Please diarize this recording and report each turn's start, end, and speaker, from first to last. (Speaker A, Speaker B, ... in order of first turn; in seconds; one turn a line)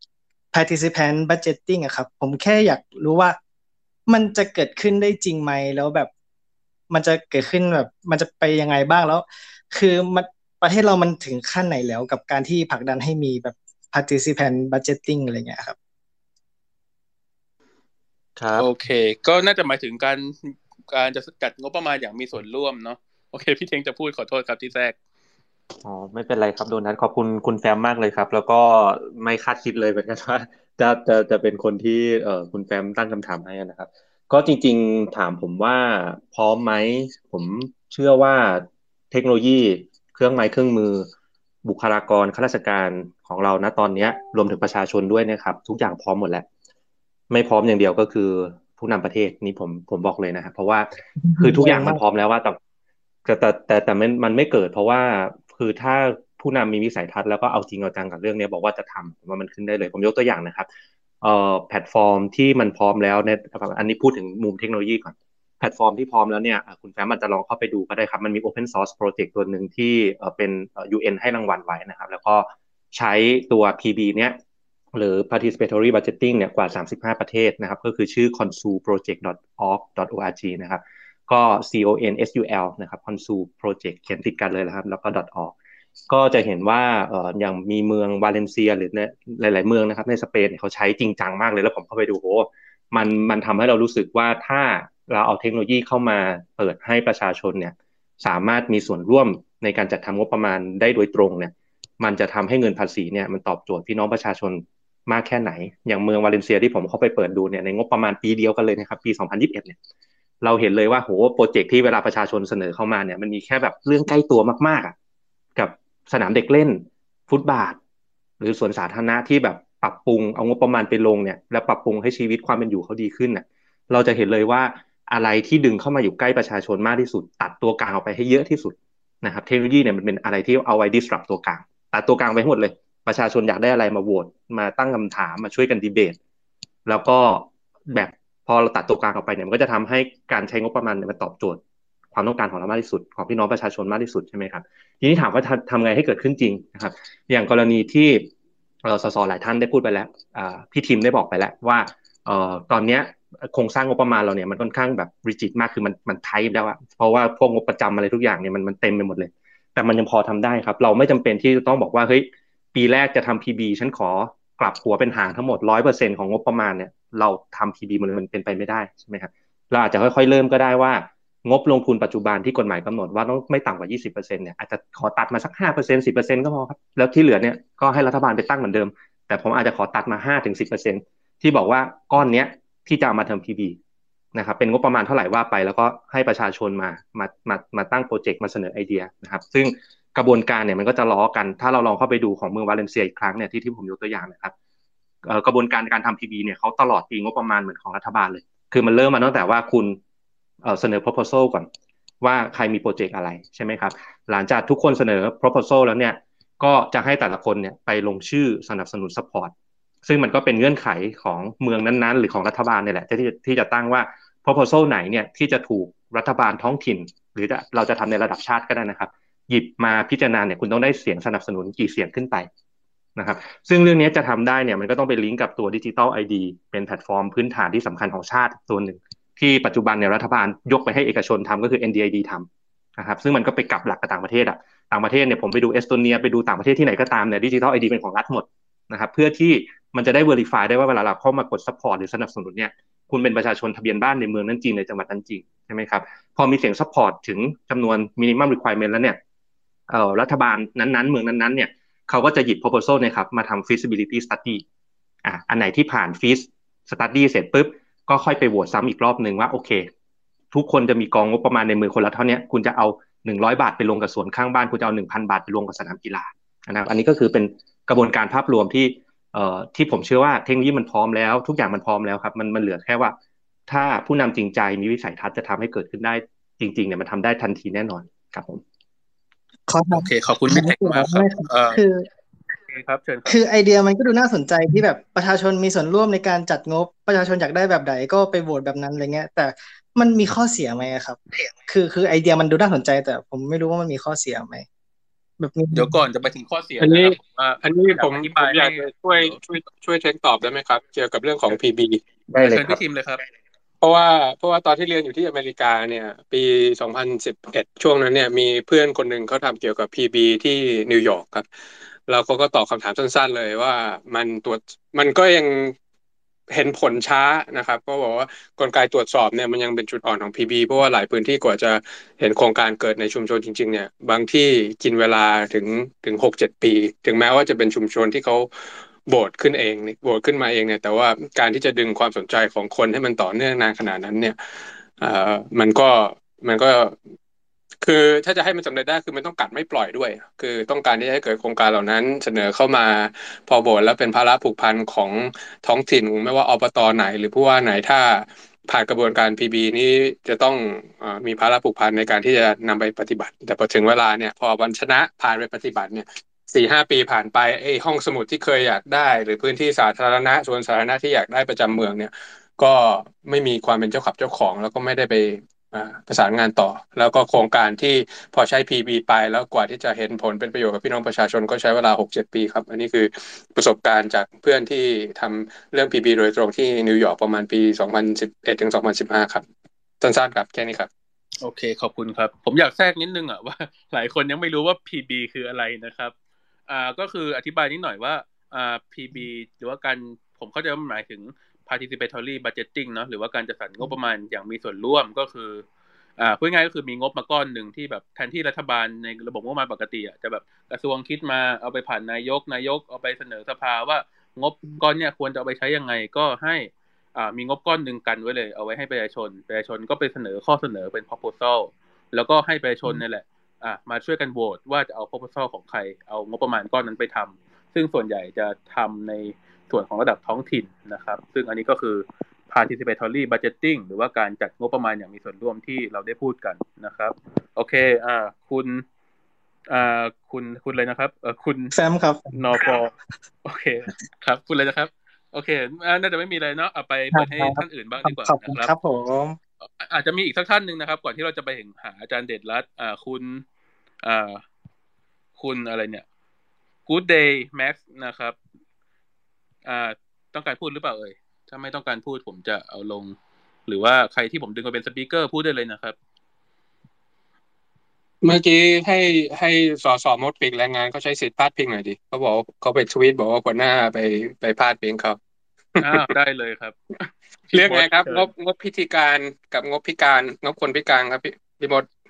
Speaker A: 0.5-3.4
Speaker A: 4.1-6.1
Speaker A: 6.9-15.8
Speaker B: 18.4-18.7
Speaker C: 18.6-24.9
Speaker B: 25.8-41.1
Speaker B: 41.6-46.5
Speaker B: 47.3-52.6
Speaker A: 51.2-52.0
Speaker B: 53.2-60.7
Speaker B: 61.2-74.4
Speaker B: 74.9-85.5
Speaker B: 86.1-109.8
Speaker B: 110.4-114.9
Speaker B: 115.5-117.8
Speaker B: 118.4-136.2
Speaker B: 136.8-141.6
Speaker B: 142.1-148.3
Speaker B: 148.8-183.8
Speaker B: 184.3-194.5
Speaker B: 195.2-200.0
Speaker B: 200.6-201.7
Speaker B: 202.2-209.5
Speaker B: 210.0-222.5
Speaker B: 223.2-249.2
Speaker B: 249.9-254.6
Speaker B: 255.2-259.9
Speaker B: 260.5-273.2
Speaker B: 273.7-278.6
Speaker A: 279.7-282.1
Speaker C: 279.9-281.8
Speaker C: 282.7-283.4
Speaker A: 283.2-294.6
Speaker A: 295.4-296.0
Speaker C: 295.7-299.4
Speaker D: 296.8-302.0
Speaker C: 302.4-303.2
Speaker D: 303.8-311.5
Speaker D: 312.1-315.7
Speaker D: 316.5-337.0
Speaker D: 337.8-379.4
Speaker D: 380.0-380.9
Speaker C: 381.4-386.1
Speaker C: 386.7-395.6
Speaker C: 396.2-428.8
Speaker C: 429.7-431.7
Speaker A: 431.7-432.8
Speaker C: 432.3-432.9
Speaker C: 433.4-438.7
Speaker A: 437.1-439.4
Speaker C: 439.7-443.4
Speaker C: 444.0-444.4
Speaker C: 445.4-446.0
Speaker C: 446.9-448.4
Speaker C: 449.6-453.1
Speaker C: 453.7-455.9
Speaker D: 458.2-465.2
Speaker D: 465.8-466.1
Speaker C: 465.8-468.3
Speaker D: 467.5-471.9